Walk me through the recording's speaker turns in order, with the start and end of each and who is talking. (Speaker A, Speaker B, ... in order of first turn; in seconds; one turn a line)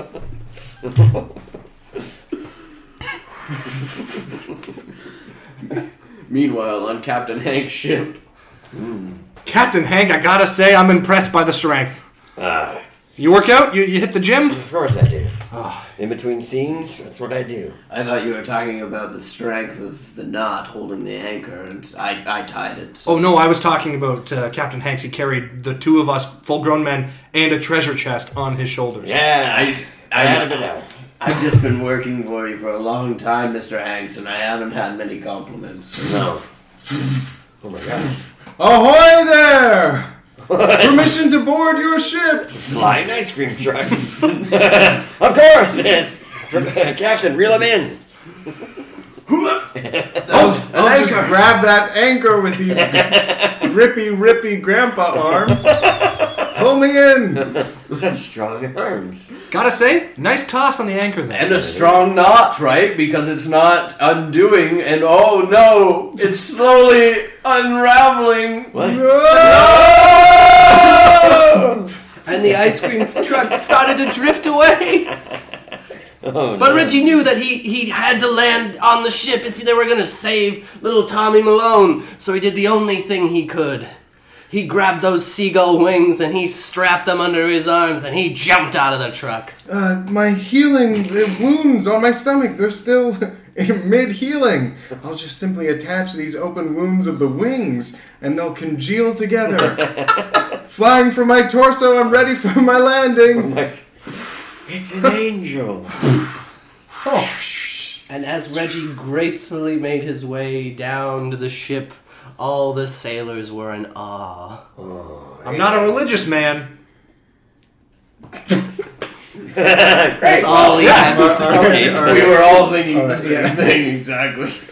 Speaker A: 6.3-8.2
Speaker B: 8.7-9.2
Speaker C: 9.4-12.0
Speaker B: 12.4-12.8
Speaker C: 13.2-14.6
Speaker B: 14.5-15.4
Speaker C: 15.5-15.9
Speaker B: 16.0-17.8
Speaker A: 17.9-23.1
Speaker C: 23.1-29.2
Speaker B: 29.0-30.9
Speaker A: 29.4-30.7
Speaker A: 31.2-36.1
Speaker B: 36.0-36.4
Speaker B: 37.6-38.1
Speaker D: 38.0-40.1
Speaker B: 40.5-41.2
Speaker D: 40.8-42.6
Speaker B: 42.5-48.0
Speaker A: 49.3-49.7
Speaker B: 49.8-50.3
Speaker A: 50.2-51.5
Speaker D: 50.3-55.7
Speaker B: 52.7-53.7
Speaker B: 55.8-56.1
Speaker D: 56.5-57.5
Speaker B: 57.6-59.3
Speaker C: 59.5-61.6
Speaker A: 61.3-71.4
Speaker B: 61.6-62.0
Speaker B: 68.7-71.9
Speaker D: 68.8-69.9
Speaker E: 72.2-75.1
Speaker B: 76.2-77.0
Speaker E: 76.6-83.9
Speaker E: 84.5-89.5
Speaker D: 89.7-100.0
Speaker B: 99.6-100.4
Speaker D: 100.7-103.5
Speaker B: 103.3-103.8
Speaker B: 104.7-106.1
Speaker C: 107.0-107.4
Speaker E: 108.1-114.6
Speaker B: 114.8-116.0
Speaker C: 115.4-116.7
Speaker B: 119.5-122.6
Speaker E: 120.2-122.1
Speaker D: 120.8-123.6
Speaker A: 121.8-124.6